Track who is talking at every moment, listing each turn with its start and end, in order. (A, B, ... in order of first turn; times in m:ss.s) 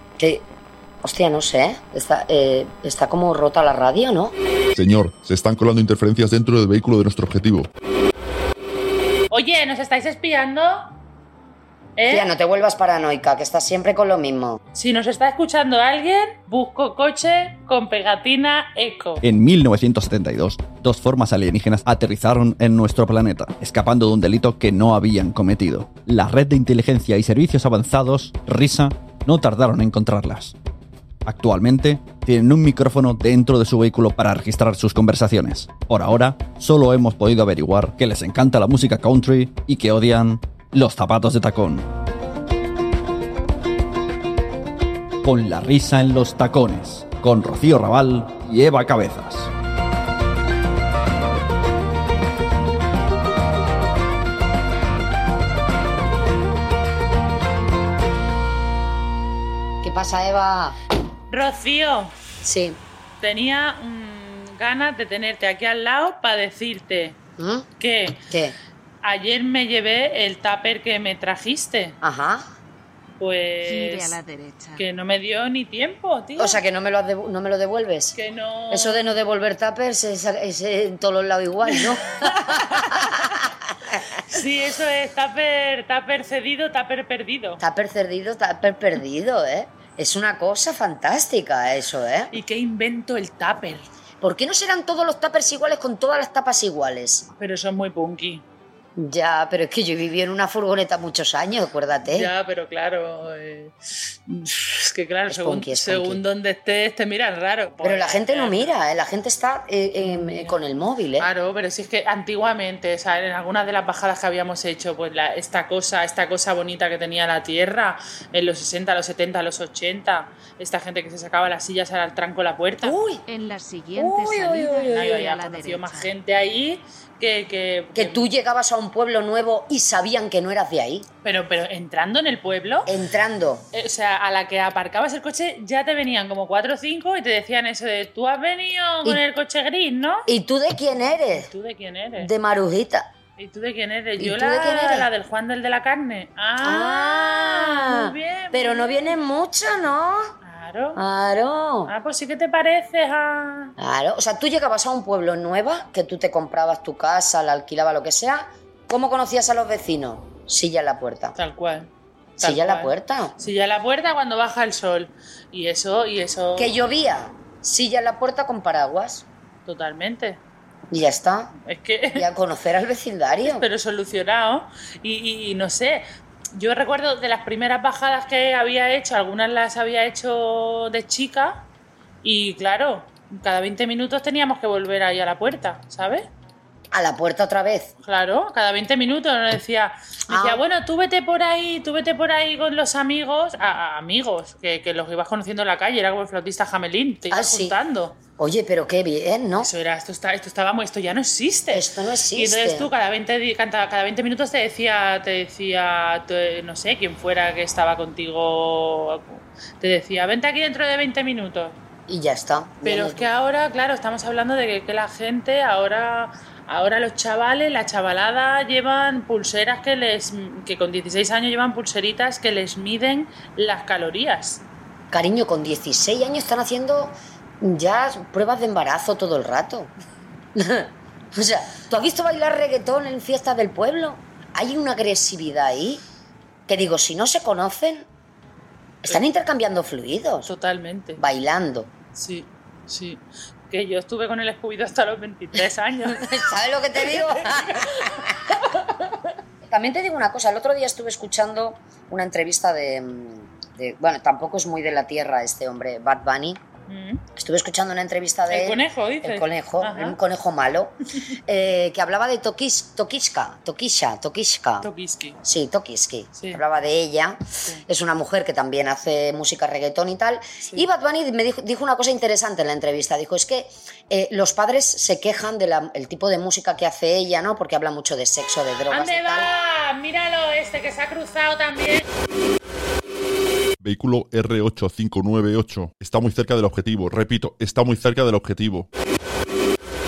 0:00.2-0:00.4 A
0:01.0-0:04.3 A
0:04.7-0:07.7 B
0:09.3-0:11.0 C
0:12.0-0:12.3 C
0:12.1-0:14.6 A
0:14.8-0:19.2 C
0:19.2-0:30.6 D
0:31.3-0:41.9 D
0:45.2-0:49.5 D
0:59.8-1:00.8 A
1:01.3-1:02.1 C
1:02.4-1:02.8 A
1:03.2-1:07.2 C
1:07.4-1:07.7 A
1:07.8-1:08.2 C
1:08.3-1:08.6 A
1:09.0-1:12.0 C
1:12.0-1:12.5 A
1:13.2-1:14.2 C
1:13.6-1:14.8 E
1:14.8-1:16.6 C
1:16.4-1:18.2 A
1:18.1-1:19.1 C
1:18.7-1:24.2 A
1:21.8-1:23.3 C
1:24.3-1:27.6 C
1:27.6-1:32.3 A
1:32.3-1:33.9 C
1:34.2-1:37.3 A
1:37.4-1:38.4 C
1:39.0-1:42.3 A
1:42.0-1:48.8 C
1:45.3-1:46.2 A
1:47.8-1:51.3 A
1:50.0-1:50.6 C
1:51.2-2:03.0 C
2:02.8-2:03.2 A
2:03.3-2:06.1 E
2:04.0-2:05.4 A
2:04.9-2:08.3 C
2:07.9-2:11.1 A
2:11.2-2:13.0 C
2:12.9-2:13.7 A
2:13.7-2:20.3 C
2:20.3-2:21.5 A
2:21.3-2:22.3 C
2:22.2-2:23.1 A
2:23.4-2:29.2 C
2:24.2-2:25.1 A
2:26.6-2:30.3 A
2:30.4-2:31.0 C
2:31.0-2:31.9 A
2:31.9-2:33.7 C
2:33.8-2:41.4 A
2:41.4-2:46.8 C
2:42.4-2:43.4 A
2:46.6-2:49.3 A
2:49.6-2:50.4 C
2:50.9-2:51.5 A
2:51.6-2:52.3 C
2:52.2-2:53.7 A
2:53.4-2:56.0 C
2:56.6-3:01.7 C
3:02.2-3:06.3 C
3:06.9-3:07.9 A
3:08.0-3:18.2 C
3:10.3-3:10.6 A
3:17.3-3:17.8 A
3:18.4-3:19.7 A
3:19.6-3:31.8 C
3:21.7-3:22.9 A
3:32.1-3:33.3 A
3:32.8-3:44.6 C
3:45.1-3:49.9 A
3:50.6-3:56.0 A
3:56.7-3:58.1 A
3:59.0-4:00.5 A
4:00.5-4:01.2 C
4:01.2-4:01.9 A
4:02.2-4:06.3 C
4:06.0-4:08.5 A
4:09.6-4:16.6 A
4:16.9-4:17.2 C
4:17.4-4:21.0 A
4:18.5-4:20.2 C
4:21.5-4:24.9 A
4:24.8-4:25.4 C
4:25.4-4:39.5 A
4:26.4-4:26.6 C
4:38.9-4:42.1 C
4:43.8-4:48.9 B